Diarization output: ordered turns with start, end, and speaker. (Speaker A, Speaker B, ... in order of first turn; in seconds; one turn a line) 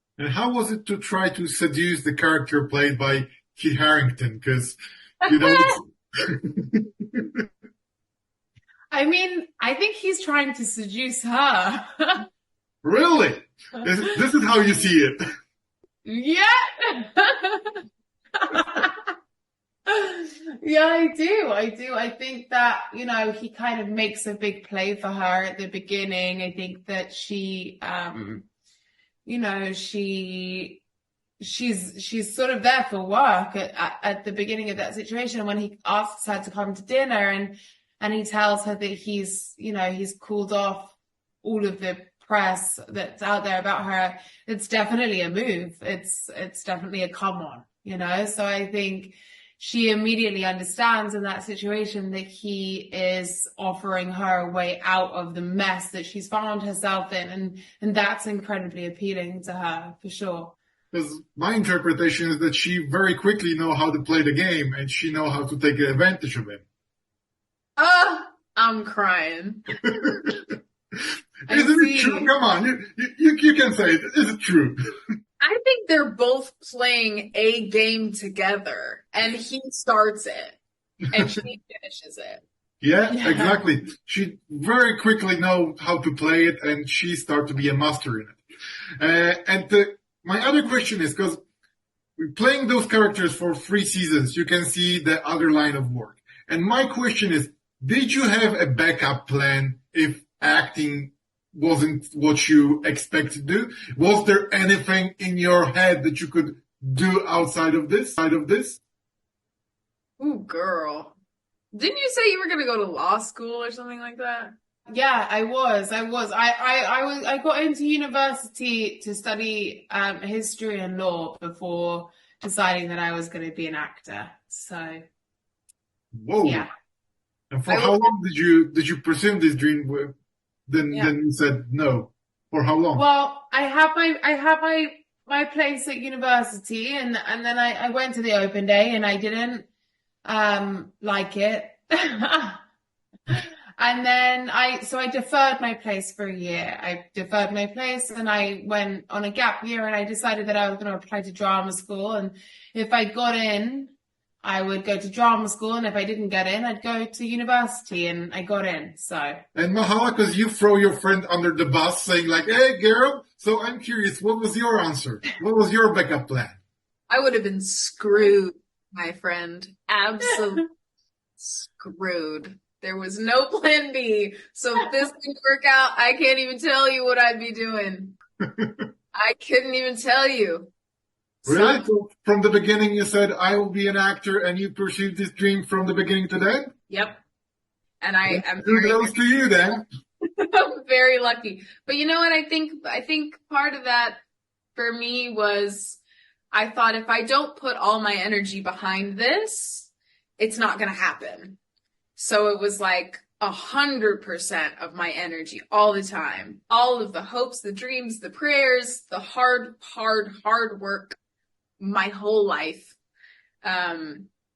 Speaker A: 0.2-7.5
Speaker B: 8.9-12.3
Speaker A: 12.8-15.2
Speaker B: 16.1-17.8
Speaker B: 18.4-19.1
Speaker B: 19.9-28.5
Speaker B: 29.2-30.8
Speaker B: 31.4-60.6
Speaker A: 60.9-66.6
Speaker C: 67.8-70.3
Speaker A: 71.5-74.8
Speaker B: 71.5-72.3
Speaker C: 75.4-80.6
Speaker C: 81.1-82.4
Speaker A: 82.8-88.4
Speaker B: 83.1-83.6
Speaker A: 89.0-91.4
Speaker A: 92.2-108.8
Speaker C: 110.2-111.2
Speaker C: 111.7-114.5
Speaker B: 114.9-125.0
Speaker A: 126.1-126.7
Speaker B: 126.4-126.7
Speaker A: 127.5-130.1
Speaker C: 127.7-128.0
Speaker A: 130.7-133.1
Speaker B: 132.9-139.7
Speaker B: 140.2-142.6
Speaker B: 143.3-159.4
Speaker A: 159.6-166.6
Speaker C: 167.1-170.7
Speaker C: 171.4-178.2
Speaker A: 178.4-178.9
Speaker C: 179.1-180.7
Speaker C: 181.4-181.9
Speaker A: 181.5-186.7
Speaker C: 186.9-187.2
Speaker C: 188.0-189.6
Speaker A: 188.3-189.8
Speaker C: 190.4-194.2
Speaker C: 194.8-196.0
Speaker C: 196.5-201.6
Speaker C: 202.2-211.2
Speaker C: 211.8-213.0
Speaker C: 213.6-214.3